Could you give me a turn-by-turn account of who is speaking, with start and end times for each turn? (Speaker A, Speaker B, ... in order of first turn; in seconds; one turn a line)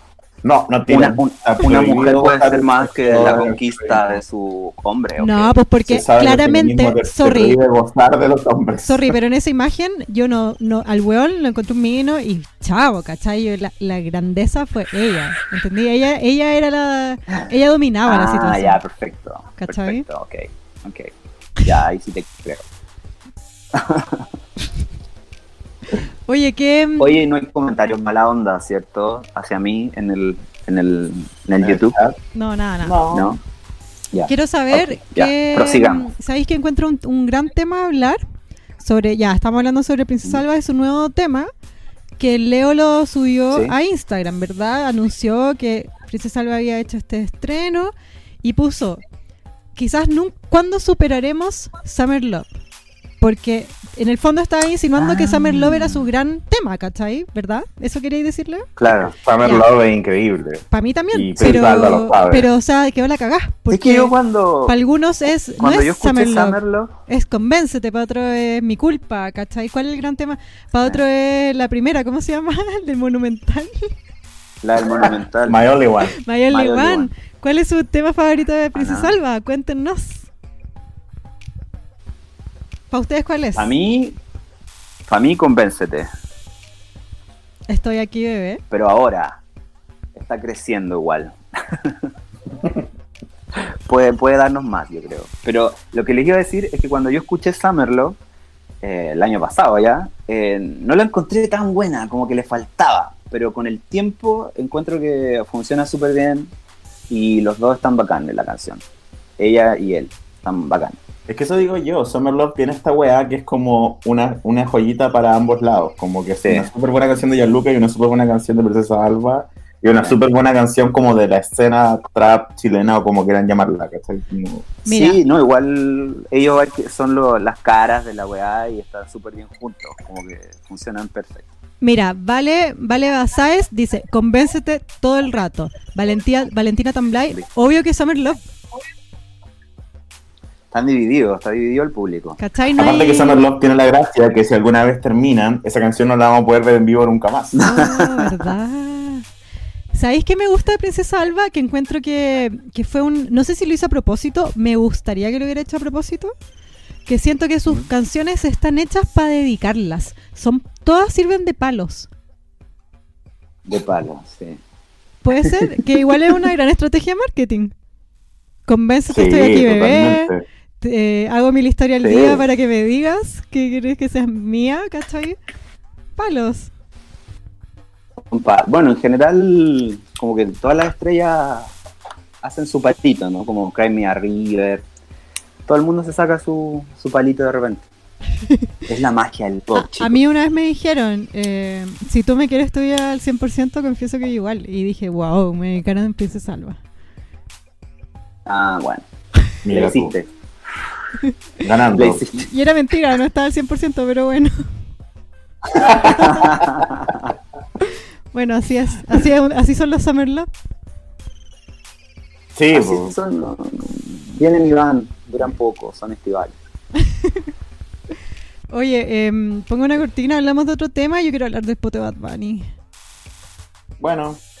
Speaker A: 0.4-4.0
Speaker B: 0.9-5.6
Speaker C: 5.2-7.6
Speaker A: 5.8-9.1
Speaker C: 8.8-18.8
Speaker B: 18.1-21.1
Speaker C: 19.6-20.0
Speaker B: 21.6-22.6
Speaker B: 23.7-24.2
Speaker C: 26.3-27.2
Speaker B: 27.0-31.9
Speaker A: 31.6-32.2
Speaker C: 32.3-33.0
Speaker A: 32.8-33.3
Speaker B: 33.1-33.4
Speaker B: 34.1-36.1
Speaker C: 34.3-38.2
Speaker C: 38.8-41.5
Speaker C: 42.2-49.0
Speaker C: 49.8-52.5
Speaker C: 53.2-58.7
Speaker B: 55.0-56.1
Speaker B: 58.8-59.1
Speaker A: 58.9-62.5
Speaker C: 59.4-59.7
Speaker C: 60.7-64.1
Speaker B: 63.7-64.7
Speaker C: 64.7-73.9
Speaker B: 65.6-66.9
Speaker B: 74.6-75.6
Speaker A: 75.0-76.2
Speaker C: 76.2-80.3
Speaker B: 76.5-77.1
Speaker B: 78.7-79.1
Speaker C: 82.9-83.7
Speaker B: 83.5-84.2
Speaker B: 85.1-86.1
Speaker C: 87.7-88.6
Speaker B: 88.7-89.4
Speaker B: 90.1-92.1
Speaker B: 93.9-98.2
Speaker B: 98.8-106.5
Speaker B: 107.1-108.8
Speaker B: 109.4-111.0
Speaker A: 111.3-124.7
Speaker C: 124.8-125.2
Speaker B: 124.8-131.5
Speaker C: 131.8-138.4
Speaker B: 140.7-142.4
Speaker C: 142.4-143.4
Speaker A: 142.8-147.6
Speaker B: 147.5-148.3
Speaker C: 147.6-149.2
Speaker C: 149.9-156.3
Speaker C: 157.1-162.1
Speaker B: 163.7-164.6
Speaker C: 165.2-167.7
Speaker C: 168.7-175.3
Speaker A: 169.1-170.4
Speaker B: 172.0-172.4
Speaker C: 176.2-176.7
Speaker B: 178.3-181.7
Speaker B: 182.4-184.8
Speaker B: 185.7-187.8
Speaker B: 188.9-190.2
Speaker C: 189.8-196.8
Speaker B: 198.4-199.0
Speaker A: 199.6-200.1
Speaker B: 199.7-200.3
Speaker A: 201.6-202.2
Speaker B: 201.9-202.5
Speaker C: 202.5-204.5
Speaker A: 205.7-206.3
Speaker C: 206.0-206.6
Speaker B: 206.2-207.3
Speaker C: 207.8-210.5
Speaker A: 212.5-213.1
Speaker B: 212.7-216.6
Speaker C: 217.0-217.4
Speaker C: 218.7-222.7
Speaker A: 224.0-224.4